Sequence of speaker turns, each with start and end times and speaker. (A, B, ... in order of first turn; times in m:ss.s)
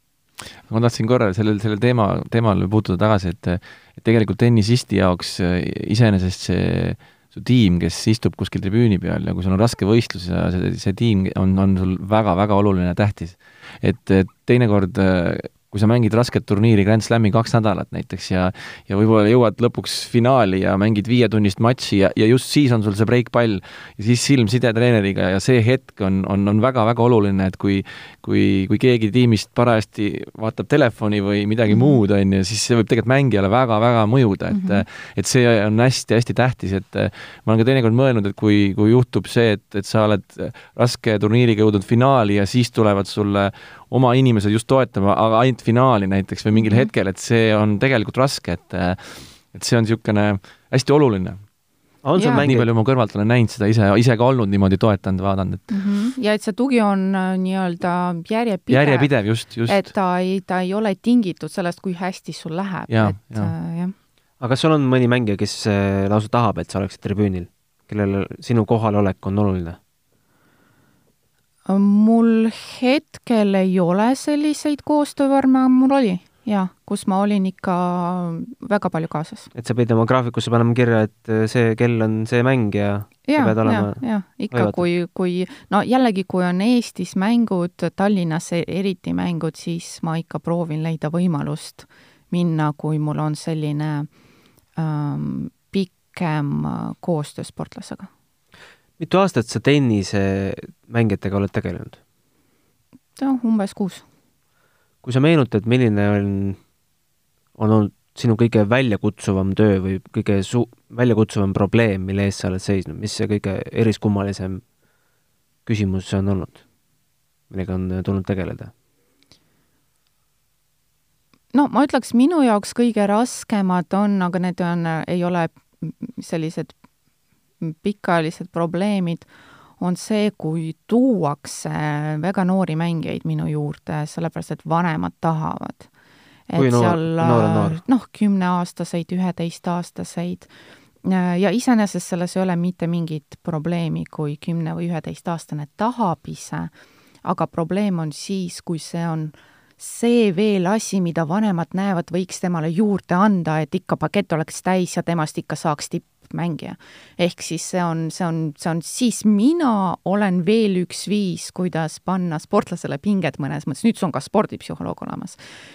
0:00.7-0:51.4 A
0:31.7-0:32.0 B
0:34.5-0:34.8 B
0:46.5-0:46.9 B
0:52.0-0:52.7 C
0:52.2-0:52.5 B
0:52.3-0:55.7 A
0:55.7-0:59.1 B
0:58.7-0:59.9 A
0:59.6-1:03.9 B
1:02.9-1:03.5 A
1:04.4-1:09.8 C
1:11.6-1:19.5 B
1:19.5-1:24.8 C
1:23.3-1:34.1 B
1:34.8-1:38.1 B
1:39.0-1:42.0 C
1:43.2-1:44.0 B
1:45.0-1:46.6 C
1:47.6-1:54.6 C
1:55.6-1:56.6 C
1:57.5-1:58.7 C
2:01.5-2:06.7 B
2:07.6-2:15.9 B
2:16.5-2:20.5 B
2:16.6-2:17.8 C
2:21.0-2:26.7 B
2:27.2-2:45.4 B